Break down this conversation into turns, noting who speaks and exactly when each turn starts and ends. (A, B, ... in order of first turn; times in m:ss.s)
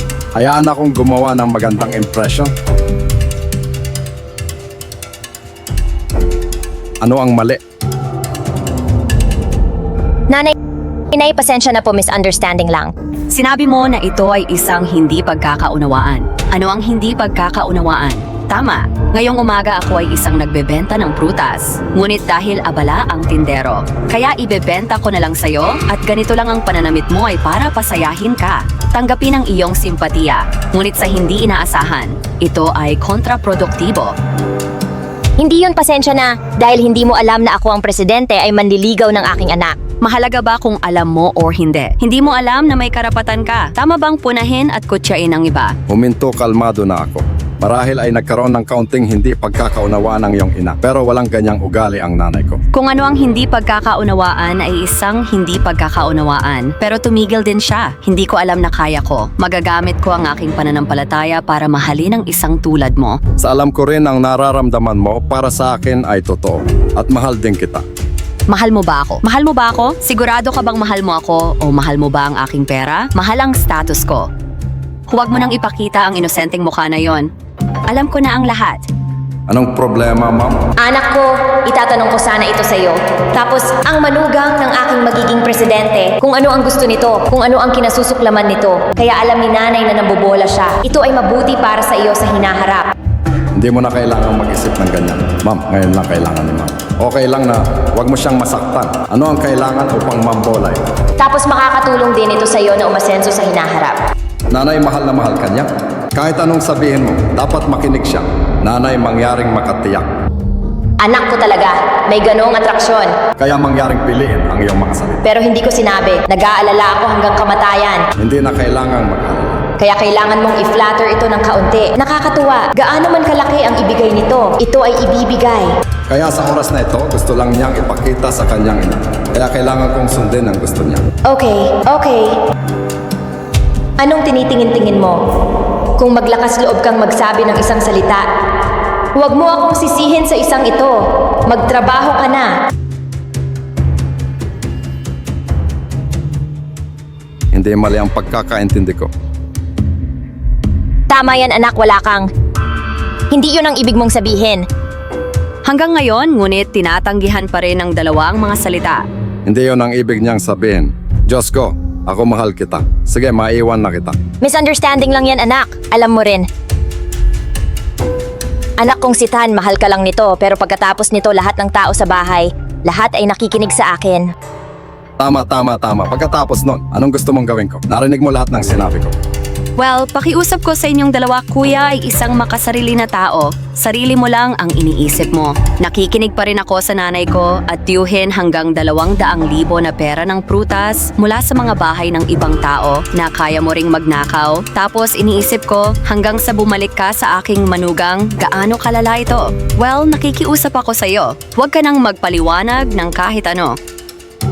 0:00.4-0:02.5 A
0:07.0-0:07.6 A
0:11.1-0:12.9 B
0:13.3-0:34.1 C
0:35.4-0:39.8 B
0:40.0-0:45.7 C
0:45.9-0:52.6 A
0:52.7-1:03.2 C
1:03.4-1:07.8 A
1:08.5-1:14.3 C
1:15.1-1:17.3 C
1:17.9-1:18.8 C
1:19.5-1:20.6 A
1:20.8-1:32.9 B
1:33.6-1:40.8 A
1:41.2-1:44.0 B
1:44.5-1:50.1 A
1:51.0-1:53.2 B
1:53.4-1:55.2 A
1:55.2-1:58.1 B
1:58.2-1:59.6 A
1:59.8-2:05.7 B
2:06.1-2:11.0 A
2:11.3-2:12.4 B
2:14.0-2:15.2 B
2:16.0-2:18.3 B
2:19.2-2:22.5 B
2:27.5-2:29.1 A
2:31.1-2:32.3 B
2:33.3-2:34.6 B
2:35.7-2:39.0 C
2:39.5-2:44.2 A
2:44.4-2:46.4 B
2:48.8-2:54.3 B
2:55.2-2:59.1 A
2:59.8-3:23.7 C